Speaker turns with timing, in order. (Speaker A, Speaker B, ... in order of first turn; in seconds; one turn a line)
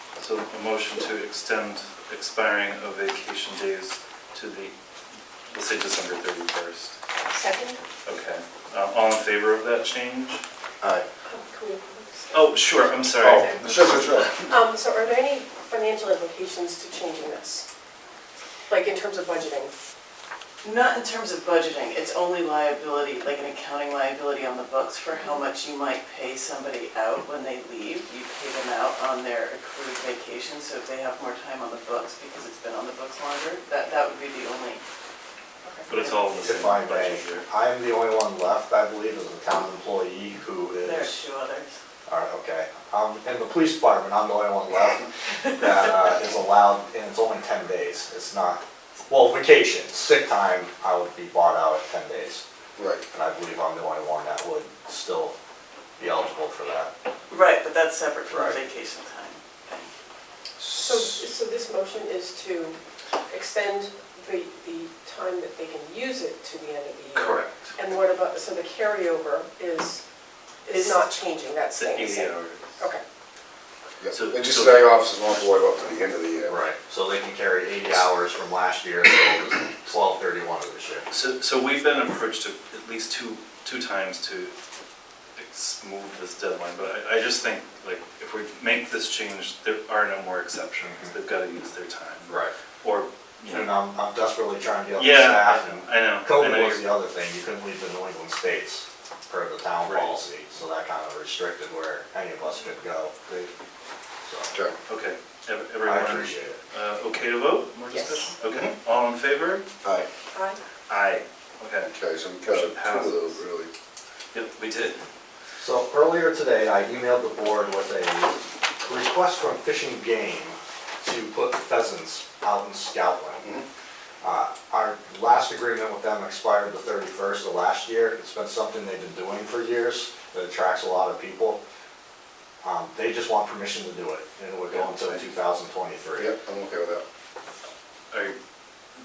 Speaker A: 0.2-4.7
Speaker A: 5.5-7.0
Speaker B: 7.3-7.8
Speaker A: 8.1-10.4
Speaker C: 10.8-11.1
Speaker B: 11.2-12.7
Speaker A: 12.3-14.1
Speaker C: 13.2-14.5
Speaker B: 13.4-13.8
Speaker B: 14.5-17.6
Speaker B: 18.7-19.7
Speaker D: 20.6-34.8
Speaker B: 25.2-25.4
Speaker B: 35.6-36.2
Speaker A: 35.9-37.5
Speaker E: 36.4-41.2
Speaker D: 40.8-41.8
Speaker E: 42.1-52.4
Speaker C: 52.8-53.1
Speaker E: 53.1-55.3
Speaker E: 56.0-56.9
Speaker D: 57.3-59.9
Speaker E: 58.3-58.6
Speaker C: 60.6-61.2
Speaker B: 60.7-70.0
Speaker A: 67.1-67.7
Speaker B: 70.6-73.0
Speaker D: 70.8-71.0
Speaker A: 71.7-72.6
Speaker C: 74.0-76.6
Speaker A: 74.1-74.9
Speaker E: 76.5-81.1
Speaker A: 81.1-84.5
Speaker A: 85.3-93.7
Speaker E: 90.8-91.1
Speaker E: 92.3-92.5
Speaker E: 93.5-103.5
Speaker A: 94.9-96.9
Speaker A: 99.8-100.1
Speaker E: 104.2-104.5
Speaker A: 104.9-109.6
Speaker E: 105.8-106.6
Speaker B: 107.9-108.3
Speaker C: 108.4-108.7
Speaker B: 110.3-110.6
Speaker A: 110.9-111.9
Speaker C: 111.9-113.7
Speaker A: 112.4-113.4
Speaker A: 114.3-115.0
Speaker E: 115.6-123.5
Speaker E: 124.2-131.6
Speaker E: 132.6-136.3
Speaker A: 134.7-135.2
Speaker C: 136.2-137.0
Speaker A: 138.1-138.4